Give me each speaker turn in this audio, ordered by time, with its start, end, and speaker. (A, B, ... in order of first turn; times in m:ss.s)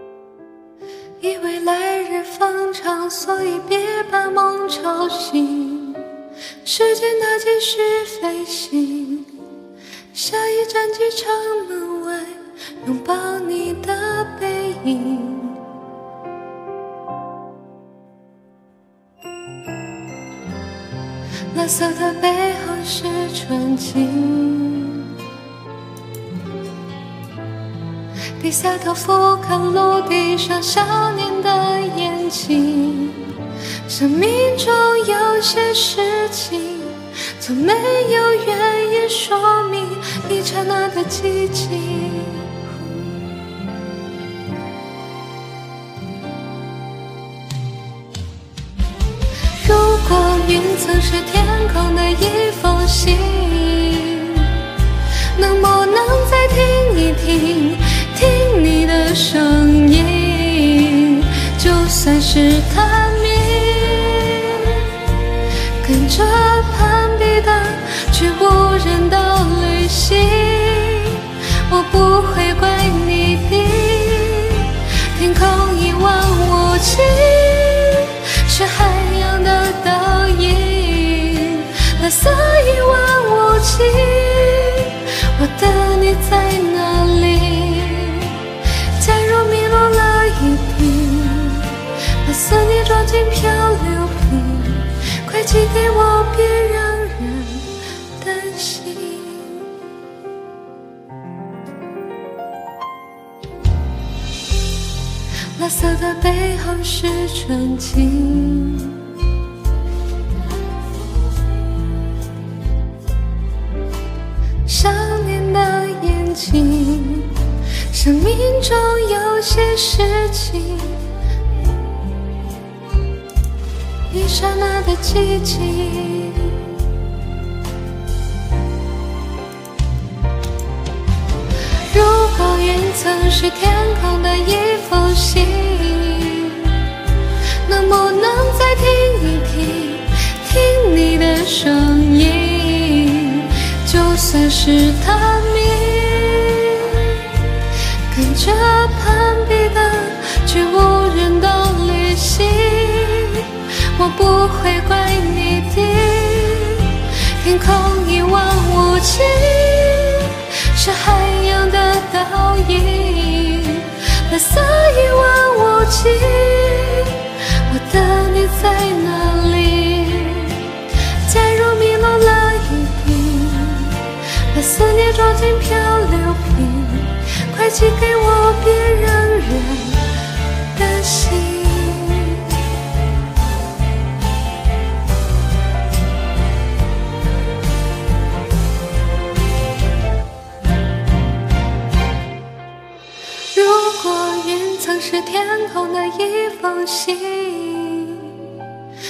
0:01.2-0:09.6 A
0:10.1-0:15.8 A
0:21.5-0:25.3 A
0:28.4-0:43.0 A
0:49.5-1:39.9 A
1:45.6-1:49.2 A
1:54.6-2:01.1 A
2:04.1-2:06.8 A
2:11.8-3:02.8 A
3:13.5-3:18.7 A